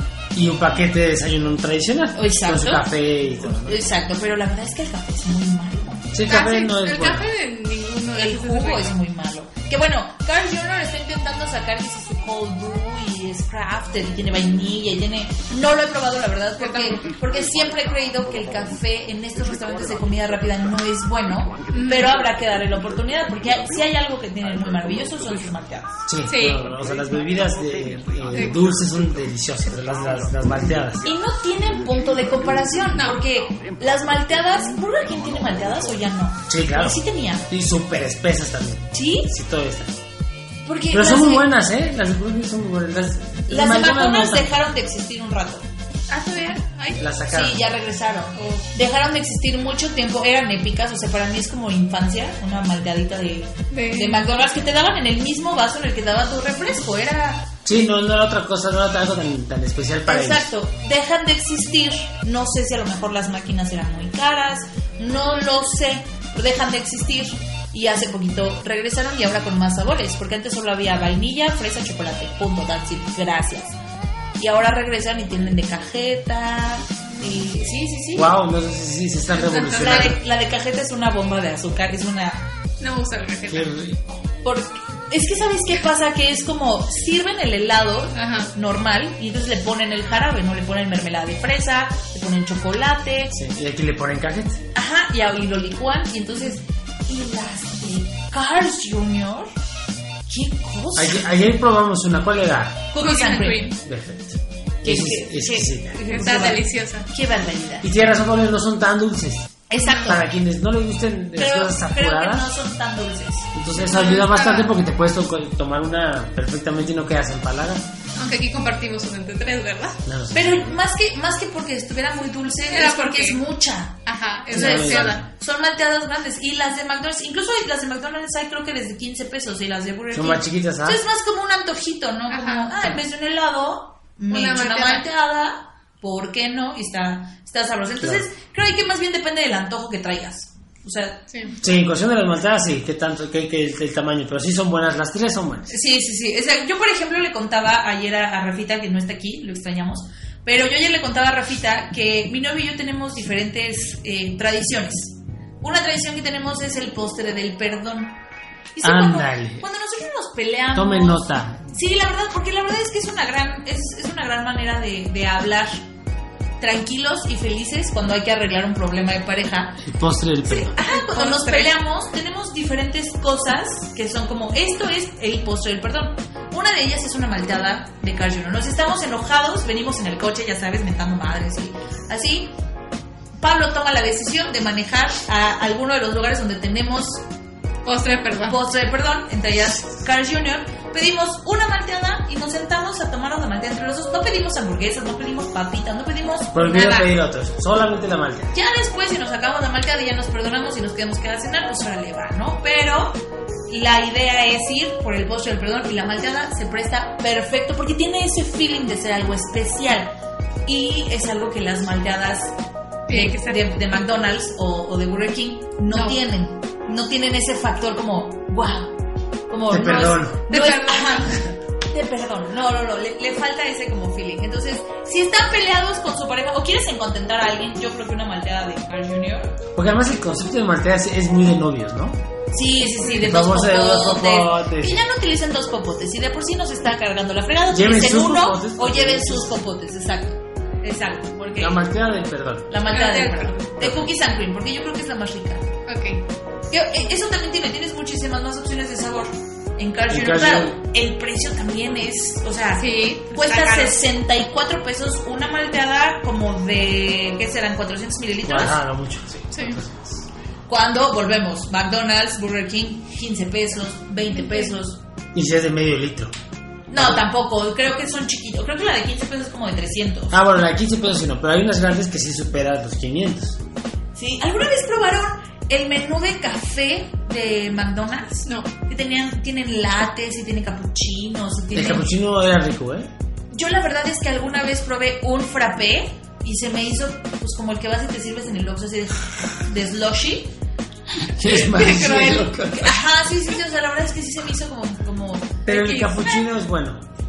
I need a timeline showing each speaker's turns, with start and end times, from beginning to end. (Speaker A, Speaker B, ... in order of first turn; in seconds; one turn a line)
Speaker A: 0.3-3.9
Speaker B: 2.1-2.9
Speaker B: 3.4-6.1
Speaker A: 6.1-7.3
Speaker C: 6.3-8.9
Speaker B: 8.1-26.0
Speaker C: 16.6-17.0
Speaker C: 21.7-22.1
Speaker A: 26.1-31.1
Speaker C: 26.2-26.7
Speaker C: 28.3-28.6
Speaker B: 31.0-37.5
Speaker C: 32.9-33.2
Speaker A: 36.5-40.0
Speaker B: 38.9-39.3
Speaker B: 40.6-41.5
Speaker A: 40.9-44.6
Speaker B: 43.5-45.7
Speaker C: 46.1-47.1
Speaker A: 47.0-47.6
Speaker B: 47.3-57.5
Speaker C: 48.4-48.7
Speaker C: 53.7-54.2
Speaker A: 57.6-60.5
Speaker B: 60.1-73.8
Speaker B: 74.4-78.3
Speaker A: 78.2-80.2
Speaker C: 79.3-80.1
Speaker B: 79.7-82.5
Speaker C: 82.8-83.7
Speaker A: 83.5-84.0
Speaker B: 84.4-93.3
Speaker C: 88.1-88.5
Speaker A: 93.3-94.6
Speaker B: 94.7-99.5
Speaker B: 100.3-101.3
Speaker A: 101.0-102.9
Speaker B: 102.9-103.8
Speaker C: 103.0-103.8
Speaker A: 103.8-106.0
Speaker B: 104.8-107.9
Speaker C: 106.1-107.1
Speaker A: 107.8-112.5
Speaker B: 109.7-110.2
Speaker C: 109.8-110.2
Speaker B: 111.4-113.5
Speaker A: 113.5-117.9
Speaker C: 113.9-114.8
Speaker C: 118.2-120.0
Speaker A: 120.1-120.8
Speaker B: 120.3-141.3
Speaker C: 122.7-123.4
Speaker C: 124.1-125.2
Speaker A: 124.5-125.2
Speaker A: 130.1-131.0
Speaker C: 132.3-132.8
Speaker C: 134.3-135.1
Speaker C: 141.3-141.6
Speaker A: 141.6-145.8
Speaker B: 145.7-158.2
Speaker B: 158.8-165.8
Speaker A: 158.8-159.7
Speaker A: 160.8-161.7
Speaker B: 166.6-169.8
Speaker A: 169.8-170.8
Speaker B: 170.4-182.5
Speaker C: 170.9-171.8
Speaker B: 183.4-187.2
Speaker C: 187.8-188.6
Speaker B: 188.5-197.1
Speaker A: 196.5-198.6
Speaker B: 198.5-212.6
Speaker C: 213.1-213.6
Speaker B: 213.1-219.0
Speaker C: 215.9-216.2
Speaker B: 219.5-229.6
Speaker A: 219.7-220.4
Speaker C: 220.5-221.4
Speaker A: 229.8-232.2
Speaker B: 232.5-241.8
Speaker A: 233.1-235.0
Speaker A: 237.7-239.6
Speaker A: 241.6-242.7
Speaker B: 242.7-245.7
Speaker C: 242.9-243.7
Speaker A: 243.8-244.1
Speaker C: 245.9-246.2
Speaker B: 246.7-258.8
Speaker A: 250.1-250.8
Speaker C: 252.8-254.0
Speaker A: 258.4-260.2
Speaker C: 259.5-259.8
Speaker B: 260.7-265.0
Speaker C: 264.3-264.8
Speaker A: 265.3-266.3
Speaker B: 266.9-270.4
Speaker A: 266.9-267.2
Speaker A: 270.3-273.6
Speaker B: 274.1-282.1
Speaker A: 281.7-283.1
Speaker B: 283.5-290.5
Speaker A: 291.4-293.0
Speaker C: 291.4-292.6
Speaker B: 292.7-295.7
Speaker A: 295.7-297.0
Speaker C: 295.7-296.4